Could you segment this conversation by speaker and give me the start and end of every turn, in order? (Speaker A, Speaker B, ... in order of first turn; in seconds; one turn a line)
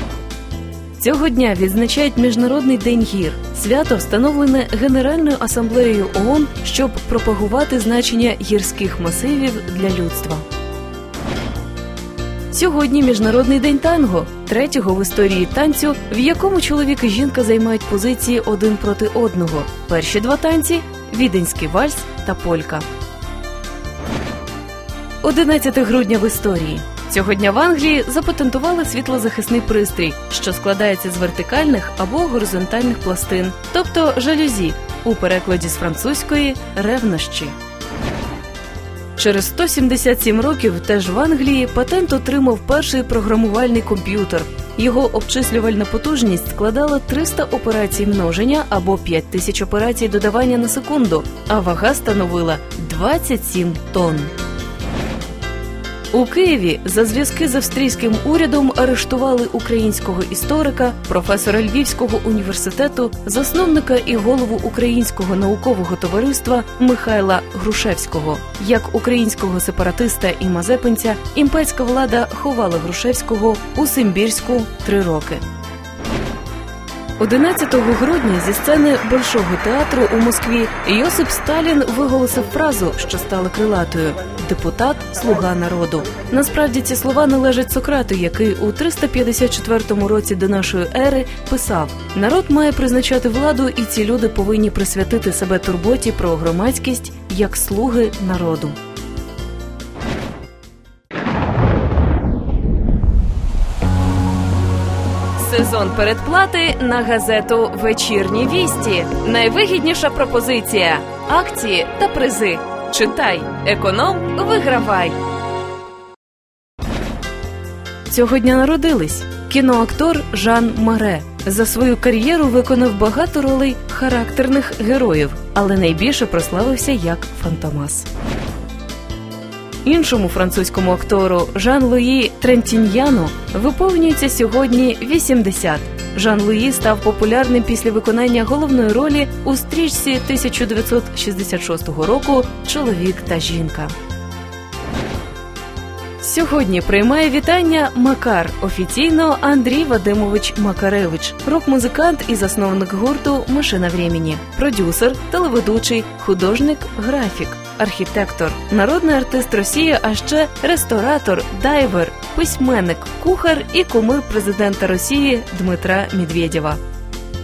Speaker A: 1.0-10.4
Speaker A: 12.5-22.9
Speaker A: 25.2-37.5
Speaker A: 39.2-54.3
Speaker A: 56.1-75.4
Speaker A: 77.2-98.8
Speaker A: 105.4-115.2
Speaker A: 118.1-128.1
Speaker A: 129.8-143.9
Speaker A: 146.2-166.8